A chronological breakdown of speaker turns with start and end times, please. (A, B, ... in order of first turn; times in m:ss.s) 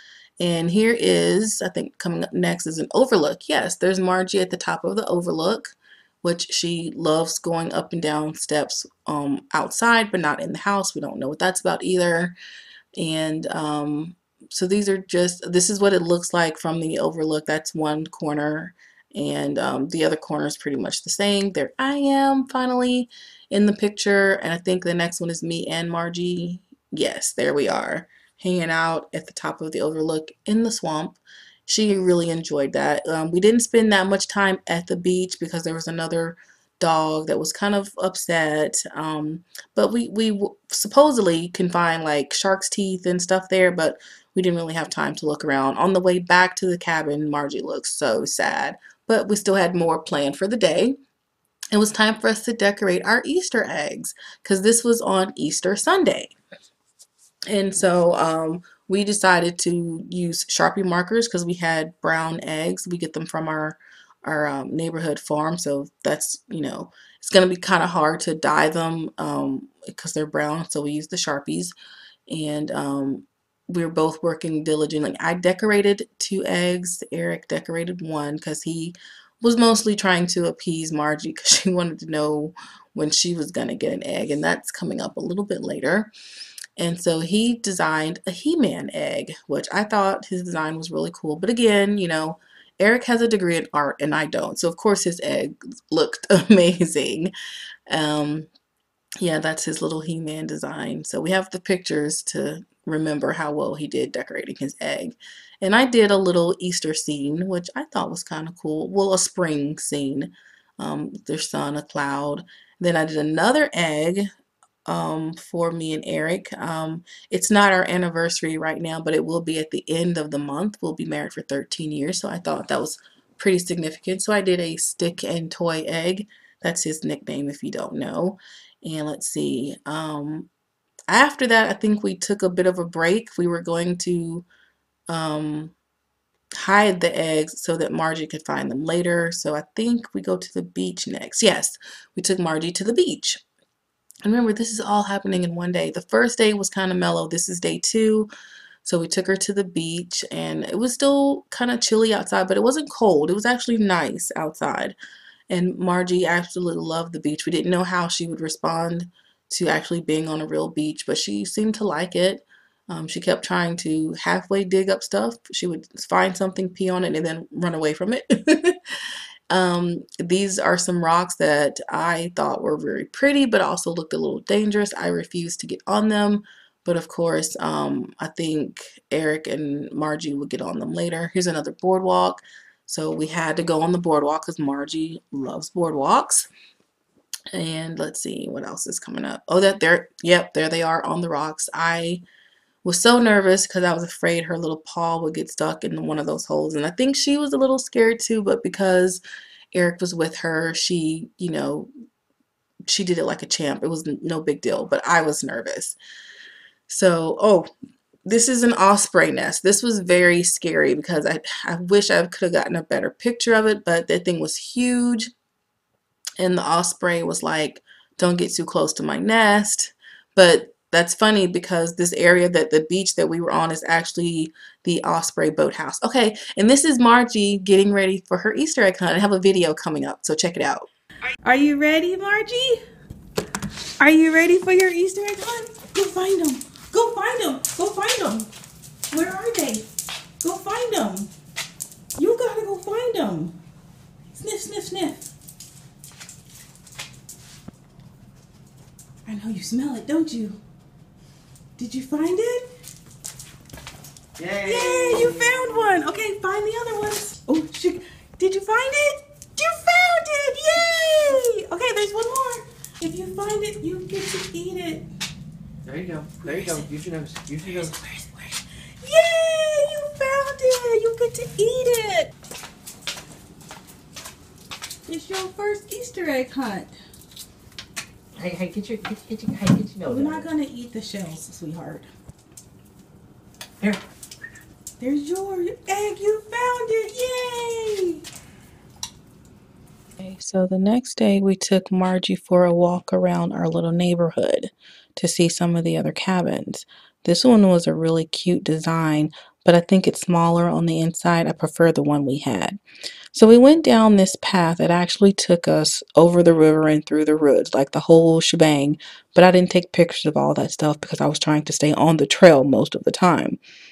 0:00.4-0:12.4 A
0:13.0-0:51.0 A
0:51.7-0:56.3 A
0:57.5-1:11.7 A
1:12.3-1:26.1 A
1:26.8-1:37.3 A
1:37.9-1:38.5 A
1:39.2-1:54.3 A
1:54.9-2:10.5 A
2:11.1-2:14.4 A
2:15.1-2:15.7 A
2:16.6-2:23.4 A
2:24.2-2:28.3 A
2:28.8-2:35.0 A
2:35.5-2:48.8 A
2:49.5-3:06.5 A
3:07.5-3:12.2 A
3:12.8-3:19.2 A
3:19.7-3:21.9 A
3:22.9-3:26.0 A
3:26.9-3:27.7 A
3:28.2-3:35.3 A
3:36.4-3:50.9 A
3:51.5-3:52.7 B
3:51.5-3:52.6 A
3:54.0-3:55.9 B
3:54.0-3:56.8 A
3:56.7-3:58.4 B
3:57.5-3:58.4 A
3:59.1-3:59.8 B
4:00.4-4:01.2 B
4:02.2-4:03.5 B
4:04.4-4:05.0 A
4:04.5-4:05.0 B
4:09.3-4:10.5 B
4:09.4-4:10.2 A
4:11.8-4:12.6 B
4:14.4-4:15.6 C
4:14.7-4:19.1 B
4:14.7-4:15.6 A
4:16.3-4:17.4 A
4:18.4-4:18.8 A
4:19.6-4:21.7 B
4:19.9-4:21.2 A
4:21.8-4:22.5 A
4:23.0-4:25.0 A
4:24.4-4:24.7 B
4:25.9-4:27.9 C
4:29.0-4:32.2 B
4:30.3-4:31.0 A
4:35.1-4:36.7 B
4:35.9-4:36.3 A
4:38.4-4:40.5 C
4:40.1-4:41.6 B
4:41.5-4:42.0 A
4:45.0-4:48.0 B
4:46.3-4:46.6 A
4:50.2-5:02.8 A
5:03.3-5:13.6 A